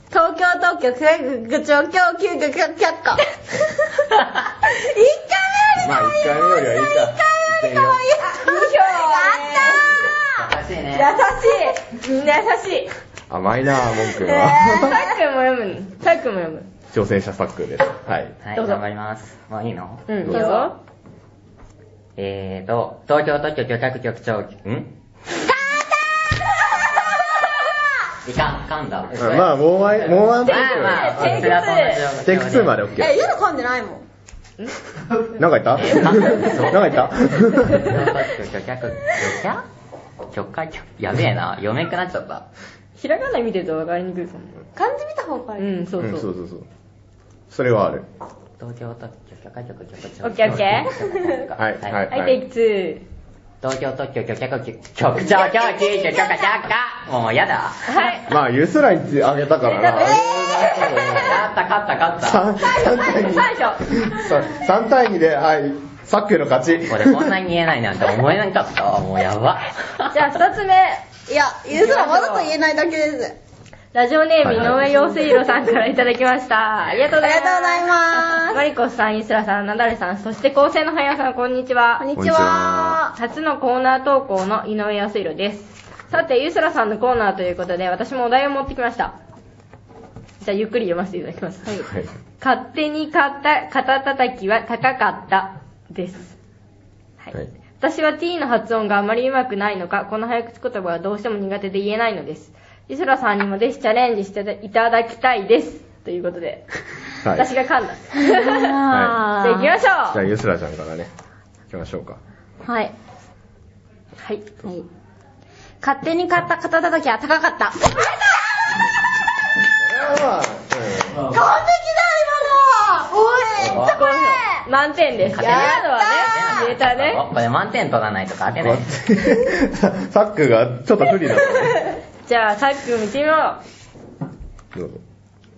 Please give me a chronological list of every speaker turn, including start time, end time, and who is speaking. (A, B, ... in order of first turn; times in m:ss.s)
0:00.1-0:04.0 A
0:04.6-0:11.8 A
0:05.8-0:08.1 B
0:08.3-0:09.9 C
0:10.3-0:11.1 D
0:11.8-0:12.9 C
0:13.3-0:15.0 B
0:14.2-0:15.2 A
0:14.6-0:16.7 C
0:16.9-0:18.3 B
0:18.4-0:20.2 D
0:18.5-0:18.8 C
0:20.1-0:20.8 C
0:20.3-0:20.7 A
0:22.2-0:24.9 D
0:25.5-0:25.9 A
0:26.6-0:27.0 A
0:28.2-0:32.8 D
0:29.2-0:31.6 B
0:30.4-0:32.0 C
0:32.2-0:33.1 B
0:33.0-0:34.0 A
0:35.3-0:38.0 B
0:35.8-0:39.6 D
0:40.3-0:42.4 D
0:43.0-0:44.6 C
0:44.7-0:45.8 A
0:45.6-0:46.3 C
0:46.0-0:46.6 B
0:47.5-0:48.0 B
0:48.6-0:52.0 D
0:50.2-0:50.9 C
0:51.6-0:52.4 B
0:52.1-0:53.0 C
0:53.6-0:57.9 D
0:55.2-0:56.5 A
0:57.9-0:58.3 C
0:58.3-1:01.5 B
0:59.6-1:01.3 C
1:01.1-1:02.4 D
1:02.2-1:07.3 B
1:02.8-1:04.1 C
1:06.9-1:10.1 D
1:10.1-1:11.0 C
1:11.3-1:13.4 A
1:11.7-1:12.5 C
1:13.9-1:22.0 C
1:14.4-1:14.8 B
1:17.2-1:18.6 A
1:22.0-1:23.1 A
1:22.2-1:23.0 B
1:23.1-1:29.1 C
1:30.4-1:31.8 C
1:32.4-1:36.3 C
1:37.2-1:46.6 C
1:47.2-1:47.5 B
1:47.3-1:48.8 C
1:48.2-1:49.8 A
1:48.9-1:49.2 B
1:49.4-1:50.2 C
1:50.1-1:51.1 B
1:51.7-1:52.2 B
1:52.6-1:52.9 A
1:54.2-1:54.5 C
1:55.8-1:58.2 A
1:59.8-2:01.3 B
2:01.2-2:04.6 A
2:03.7-2:04.1 D
2:03.8-2:07.2 C
2:05.3-2:08.9 D
2:05.4-2:06.3 A
2:08.6-2:11.8 B
2:12.2-2:13.6 C
2:14.7-2:15.0 B